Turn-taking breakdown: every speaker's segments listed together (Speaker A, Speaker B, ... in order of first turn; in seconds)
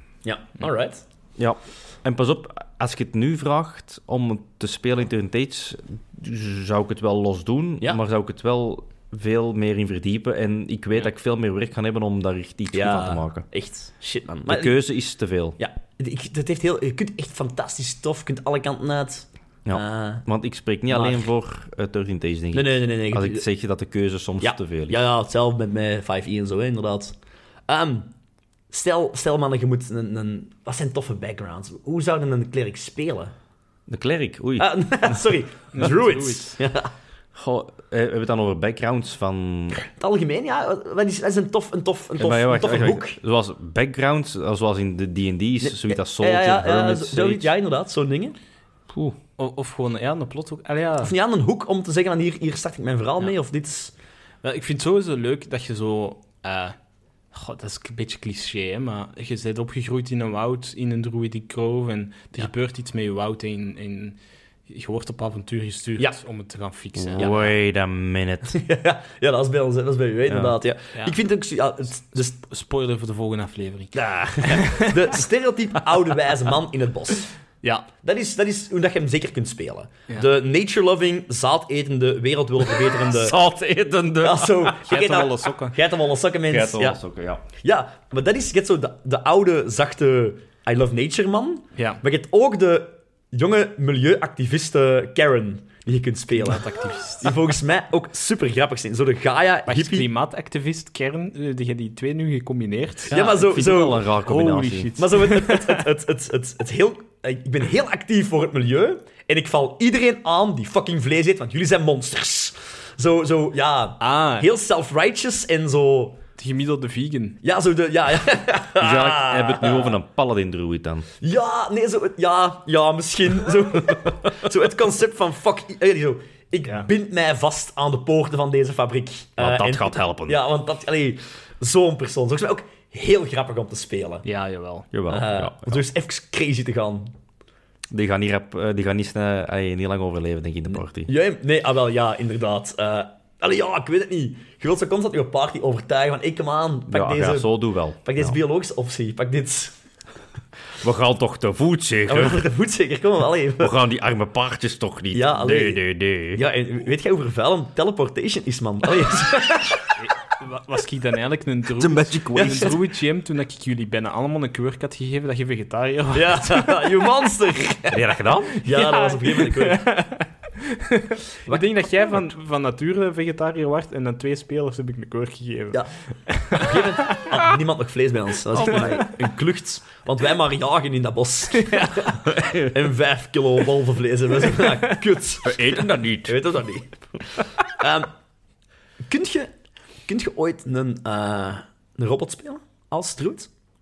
Speaker A: 0.2-1.0, 12.7-14.8, 15.6-20.2, 20.9-21.3, 22.5-23.4, 24.4-27.1, 27.7-28.1, 28.7-33.3, 34.6-36.9, 39.9-43.2, 45.6-48.4, 51.0-53.9, 67.2-67.4, 68.5-72.4, 73.9-77.3, 78.0-83.3, 84.2-87.0, 87.6-96.7, 97.2-100.1, 103.1-104.0, 105.0-116.2, 117.4-120.0, 121.2-134.2, 135.1-137.1, 141.0-149.7, 152.1-153.7, 155.1-155.8, 156.3-159.8, 162.4-162.7, 166.1-169.8, 176.5-188.1, 189.1-189.5, 190.1-193.5
Speaker B: 1.4-13.4, 14.5-15.6, 19.6-25.0, 33.9-35.2, 37.4-39.8, 42.2-47.5, 48.9-49.2, 67.0-68.6, 70.3-70.5, 82.9-84.8, 86.5-87.4, 103.1-105.0, 118.8-121.1, 129.4-130.4, 134.9-135.8, 137.9-141.1, 146.9-148.4, 150.8-152.4, 153.6-156.4, 161.8-162.8, 167.9-168.6, 182.3-182.7, 185.4-186.3
Speaker C: 35.7-36.6, 49.4-51.1, 54.4-56.8, 57.3-64.2, 64.7-67.5, 72.4-75.2, 84.9-85.8, 91.8-92.0, 96.3-97.3, 99.7-105.8, 114.0-114.5, 116.4-117.4, 134.2-134.9, 160.0-166.9, 168.6-177.4, 178.6-179.1, 181.6-182.1